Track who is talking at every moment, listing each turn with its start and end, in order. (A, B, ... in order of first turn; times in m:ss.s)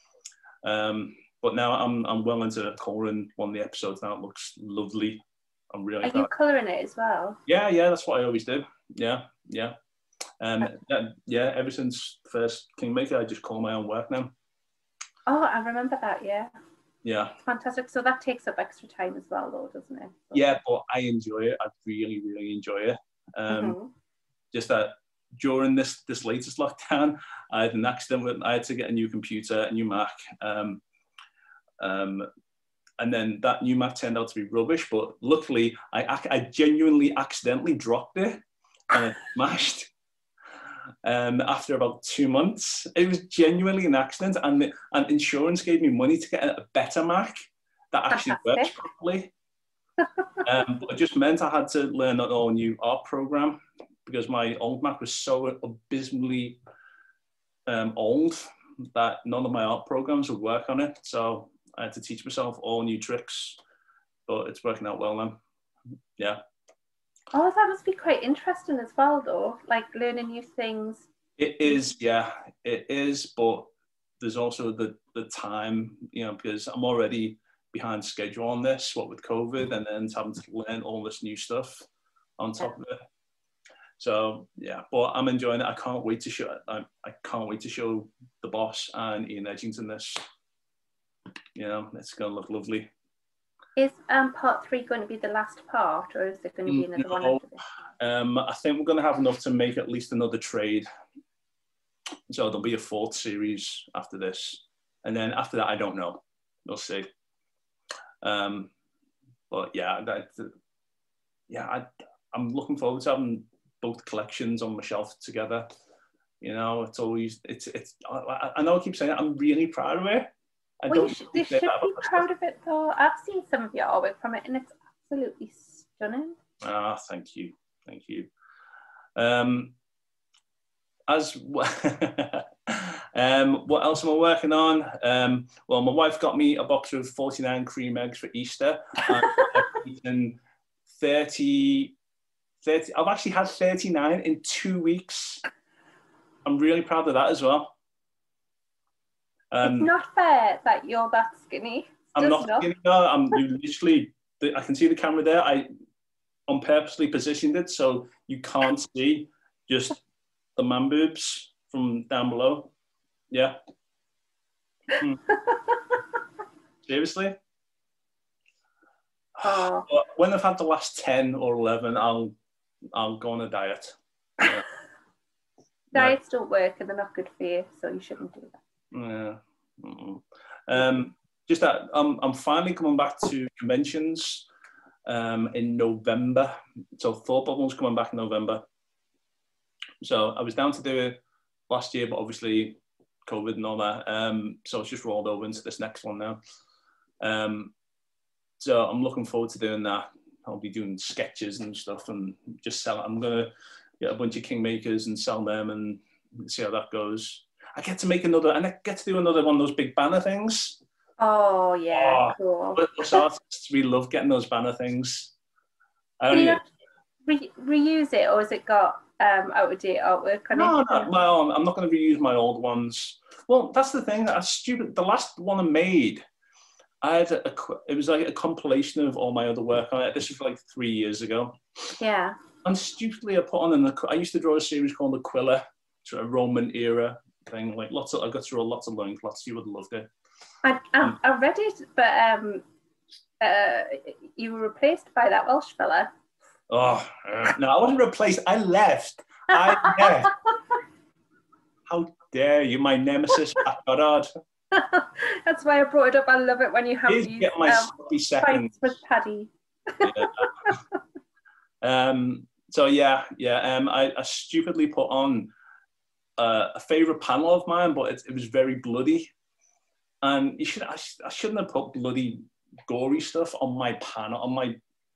0:00.6-0:06.3 A
0:06.0-0:07.4 B
0:07.5-0:09.7 A
0:10.4-0:14.3 A
0:15.3-0:16.5 B
0:17.0-0:17.4 A
0:17.4-0:20.5 B
0:20.3-0:23.8 A
0:23.5-0:23.9 B
0:24.5-0:30.8 A
0:31.8-0:32.3 A
0:33.0-0:39.9 A
0:41.0-0:49.3 A
0:48.1-0:48.7 B
0:50.4-0:56.6 A
0:57.7-1:03.6 A
1:04.3-1:05.4 A
1:07.3-1:11.1 B
1:11.4-1:13.7 A
1:14.2-1:21.9 A
1:22.4-1:23.0 A
1:24.0-1:30.2 A
1:31.6-1:32.9 A
1:33.8-1:37.7 B
1:36.7-1:37.4 A
1:38.0-1:40.9 A
1:42.3-1:47.1 A
1:48.2-1:48.7 A
1:49.5-1:50.5 A
1:51.5-1:55.7 A
1:56.4-2:02.3 A
2:00.9-2:06.4 B
2:06.6-2:08.3 A
2:09.2-2:09.8 A
2:11.1-2:20.4 A
2:20.9-2:22.0 A
2:22.6-2:25.4 A
2:26.4-2:27.7 A
2:29.5-2:29.9 A
2:29.6-2:32.7 B
2:32.2-2:35.7 A
2:36.5-2:40.0 A
2:40.6-2:42.7 A
2:43.3-2:43.6 A
2:44.9-2:45.2 A
2:45.5-2:45.8 B
2:46.8-2:47.4 A
2:49.4-2:52.4 A
2:49.4-2:49.9 B
2:52.9-2:54.6 A
2:55.9-2:58.6 B
2:58.9-3:04.5 A
3:05.1-3:08.6 A
3:10.0-3:11.2 A
3:11.7-3:16.4 A
3:17.2-3:17.7 A
3:18.6-3:30.8 A
3:31.2-3:33.2 B
3:31.9-3:35.3 A
3:36.2-3:36.6 A
3:36.3-3:36.7 B
3:37.2-3:41.1 B
3:40.5-3:46.2 A
3:47.0-3:51.6 A
3:52.0-3:52.4 B
3:52.6-4:00.1 A
4:00.6-4:02.6 B
4:03.4-4:06.1 B
4:06.7-4:10.3 A
4:09.8-4:10.3 B
4:11.9-4:14.3 A
4:14.7-4:21.0 B
4:17.1-4:18.7 A
4:20.0-4:20.7 A
4:21.8-4:25.5 A
4:26.4-4:29.3 A
4:30.2-4:34.8 A